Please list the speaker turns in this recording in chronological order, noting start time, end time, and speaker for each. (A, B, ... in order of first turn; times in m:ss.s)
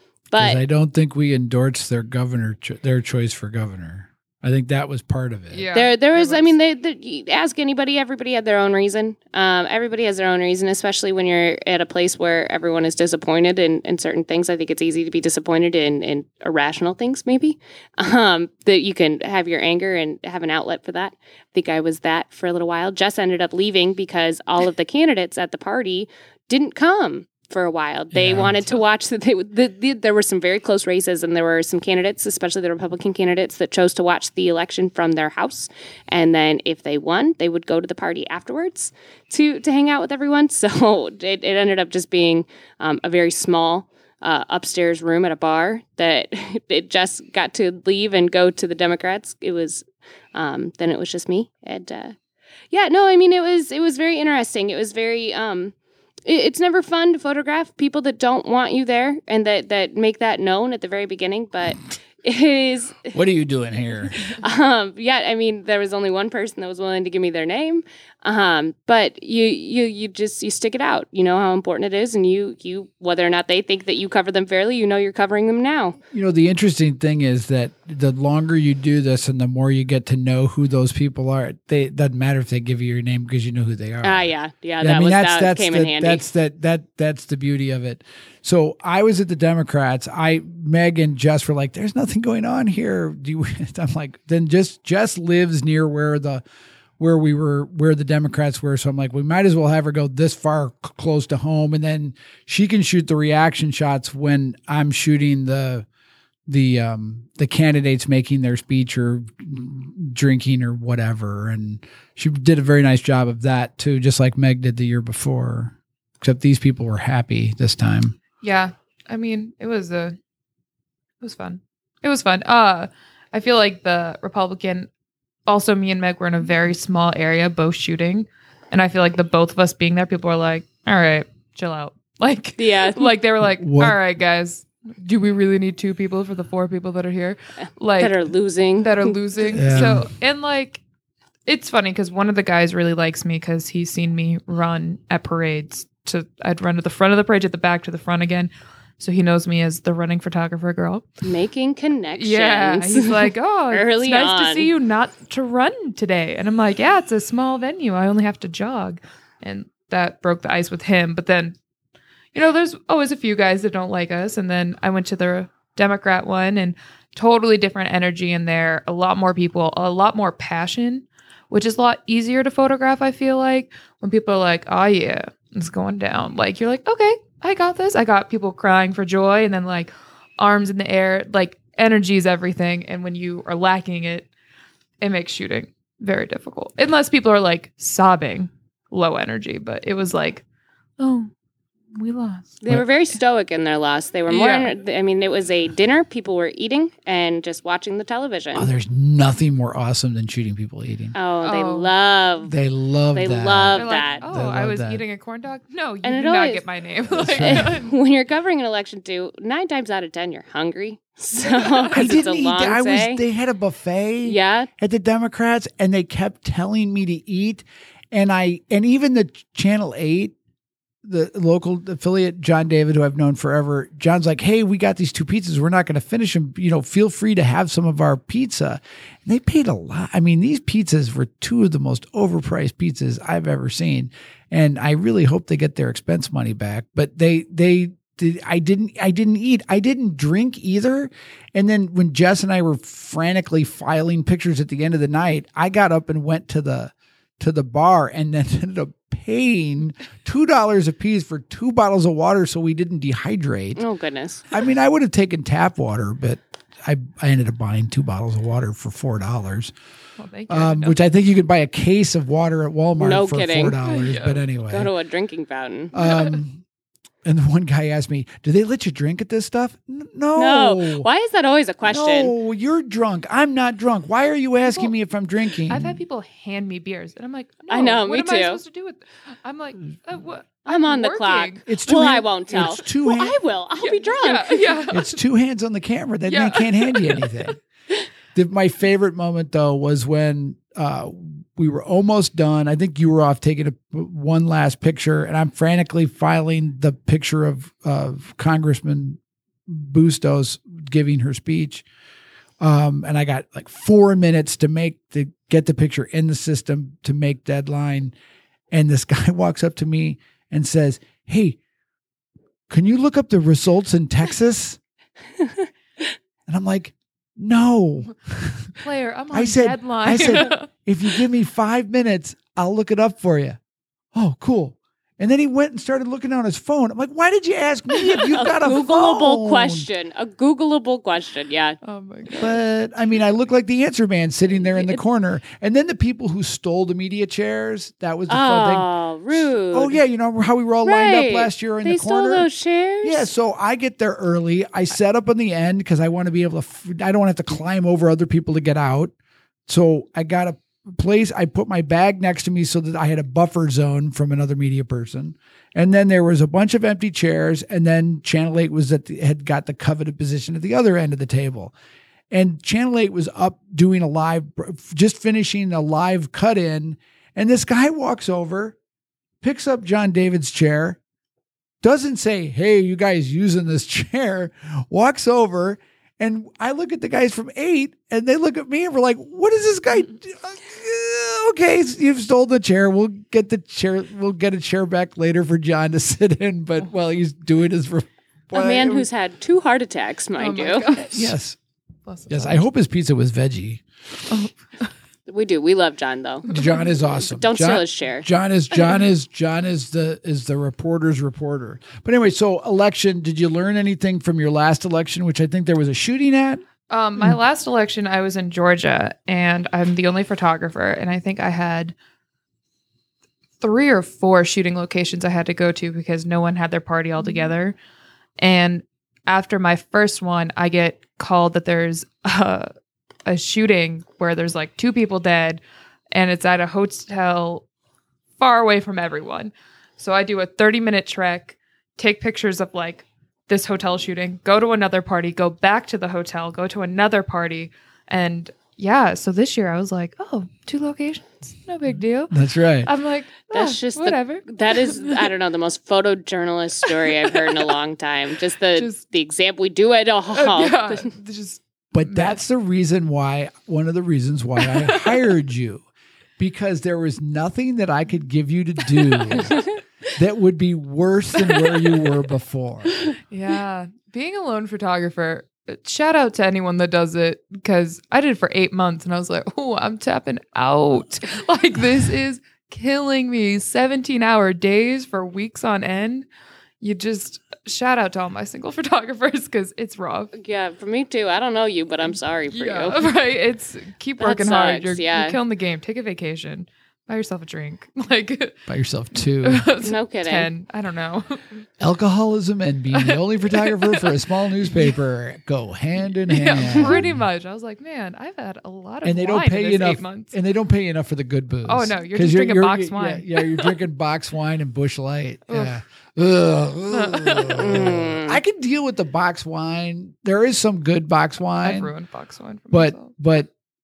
0:00.3-0:00.6 A
0:00.4-0:05.7 B
0:05.5-0:06.5 C
0:05.7-0:52.2 A
0:28.1-0:28.8 B
0:52.7-0:55.7 A
0:56.3-1:03.2 A
1:03.1-1:04.4 B
1:04.2-1:16.0 A
1:16.1-1:24.3 B
1:24.0-1:26.2 A
1:24.8-1:36.4 B
1:37.0-1:45.9 B
1:46.5-1:58.2 B
1:58.4-2:00.2 C
2:01.2-2:04.9 C
2:05.5-2:18.2 C
2:12.6-2:13.2 A
2:13.4-2:14.0 B
2:18.0-2:19.9 A
2:18.8-2:20.8 C
2:19.5-2:20.0 B
2:21.5-2:31.1 C
2:31.2-2:34.7 A
2:32.2-2:41.6 C
2:42.3-3:04.3 C
3:05.0-3:10.4 C
3:11.0-3:11.3 C
3:12.0-3:12.6 C
3:12.6-3:18.7 A
3:14.3-3:14.7 C
3:18.6-3:21.2 B
3:21.1-3:22.6 A
3:21.4-3:21.9 C
3:22.4-3:25.0 B
3:23.1-3:24.2 A
3:23.8-3:27.9 C
3:26.0-3:26.6 A
3:27.1-3:27.7 B
3:27.2-3:33.2 A
3:31.5-3:32.1 C
3:31.9-3:40.4 B
3:34.2-3:34.7 A
3:41.0-4:13.8 B
4:13.8-4:14.4 A
4:14.5-4:19.7 B
4:20.2-4:21.0 C
4:20.5-4:24.9 B
4:23.0-4:23.8 A
4:23.8-4:24.4 C
4:24.7-4:25.9 A
4:25.9-4:26.6 B
4:27.2-4:31.1 B
4:30.4-4:32.3 A
4:31.9-4:36.0 B
4:34.7-4:34.9 C
4:35.7-4:41.6 C
4:37.7-4:38.6 A
4:40.7-4:44.8 A
4:41.7-4:43.4 B
4:43.8-4:45.2 C
4:44.9-4:47.6 B
4:46.3-4:47.3 C
4:48.4-5:01.8 B
5:02.6-5:08.1 B
5:08.7-5:11.6 B
5:12.7-5:14.8 B
5:16.5-5:18.8 B
5:18.8-5:20.7 C
5:19.3-5:23.6 B
5:24.1-5:29.9 B
5:28.0-5:31.8 A
5:31.8-5:32.6 C
5:32.3-5:42.5 B
5:34.7-5:35.0 A
5:38.3-5:40.0 A
5:40.8-5:43.3 A
5:43.0-5:49.1 B
5:49.7-6:01.7 B
6:02.3-6:08.8 B
6:09.4-6:11.0 B
6:11.8-6:29.1 B
6:28.5-6:31.0 A
6:30.4-6:31.3 C
6:31.0-6:31.6 B
6:32.1-6:32.6 C
6:32.3-6:33.8 B
6:34.3-6:34.9 C
6:35.3-6:36.5 A
6:36.5-6:36.8 C
6:36.5-6:46.6 B
6:37.3-6:38.3 A
6:46.9-6:51.9 C
6:53.6-6:57.8 C
6:58.4-7:02.7 C
7:03.3-7:05.6 C
7:06.1-7:07.7 C
7:08.4-7:25.3 C
7:22.3-7:22.9 B
7:23.5-7:31.1 A
7:30.3-7:32.4 C
7:31.9-7:35.9 B
7:34.6-7:35.2 C
7:36.4-7:39.6 B
7:39.1-7:39.5 C
7:40.2-7:43.1 B
7:41.4-7:42.0 C
7:43.1-7:56.3 C
7:56.8-8:00.3 C
8:00.3-8:03.1 A
8:02.5-8:08.6 C
8:04.2-8:05.4 A
8:08.7-8:09.6 B
8:09.4-8:11.6 C
8:09.8-8:10.5 A
8:11.8-8:17.2 B
8:12.9-8:15.0 C
8:16.3-8:20.4 C
8:16.7-8:17.0 A
8:19.0-8:31.9 B
8:21.7-8:23.8 C
8:25.5-8:25.8 C
8:26.9-8:28.0 C
8:27.6-8:28.4 A
8:31.6-8:33.1 C
8:32.7-8:33.5 B